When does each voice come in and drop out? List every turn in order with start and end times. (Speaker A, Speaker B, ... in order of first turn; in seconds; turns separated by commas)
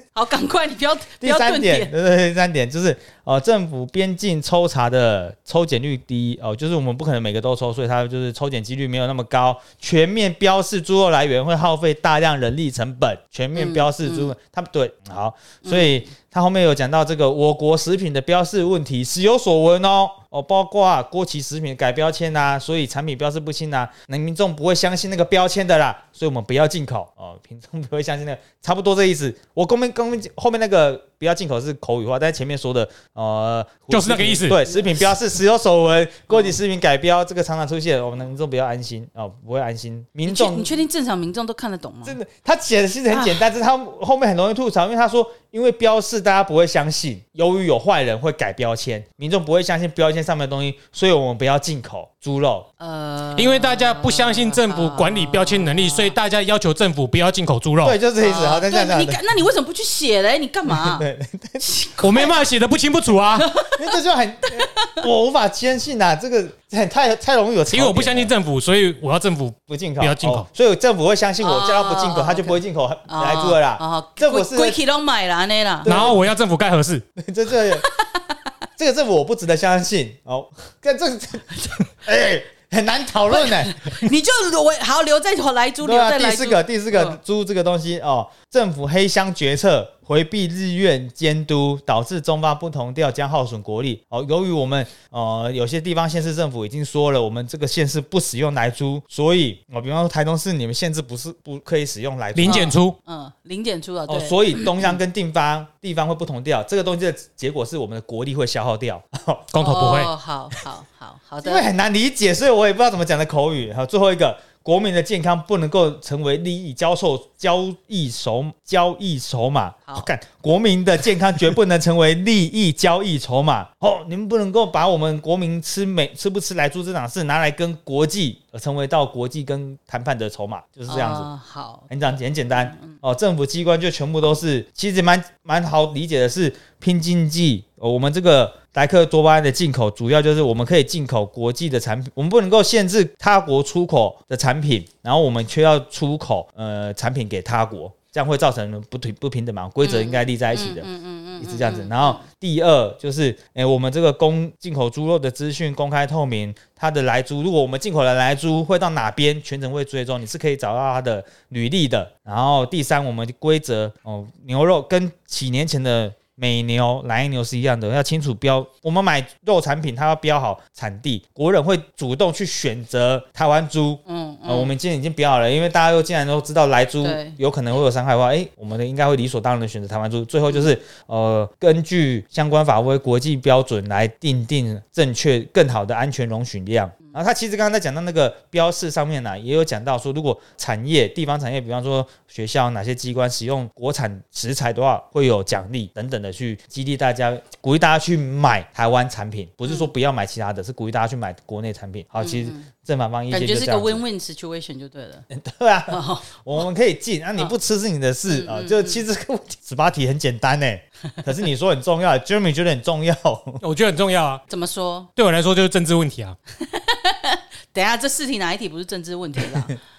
Speaker A: 0.1-1.9, Speaker B: 1.2-40.7, Speaker A: 13.5-14.3, Speaker A: 15.6-16.0, Speaker C: 33.9-34.6, Speaker A: 36.3-36.5, Speaker A: 40.2-42.2, Speaker B: 42.0-52.7, Speaker A: 43.1-43.4, Speaker A: 52.8-56.1, Speaker C: 53.4-58.0, Speaker B: 57.8-59.2, Speaker A: 58.2-61.0, Speaker B: 60.7-61.6, Speaker A: 61.6-62.3, Speaker C: 62.0-63.5, Speaker A: 63.4-63.9, Speaker B: 63.7-68.3, Speaker A: 64.6-65.0, Speaker C: 67.7-70.5, Speaker B: 69.7-74.8, Speaker A: 71.4-76.0, Speaker B: 75.8-76.2, Speaker C: 75.8-77.0, Speaker B: 77.2-77.9, Speaker A: 77.8-78.3, Speaker B: 78.8-81.5, Speaker B: 82.0-84.0, Speaker A: 83.3-87.2, Speaker B: 85.8-102.8, Speaker C: 102.3-102.9, Speaker A: 102.4-105.0, Speaker B: 104.1-109.5, Speaker C: 109.5-110.1, Speaker A: 109.6-111.7, Speaker B: 111.4-131.3, Speaker A: 130.9-131.9, Speaker B: 131.9-150.9, Speaker A: 149.8-152.2, Speaker B: 151.4-204.0, Speaker A: 174.1-174.7, Speaker A: 177.0-177.4, Speaker A: 202.2-202.7, Speaker A: 203.3-205.2, Speaker B: 205.3-213.6, Speaker A: 205.9-206.4, Speaker A: 208.3-209.0, Speaker C: 213.6-214.4, Speaker A: 214.5-215.1, Speaker C: 215.2-216.3, Speaker A: 216.6-219.8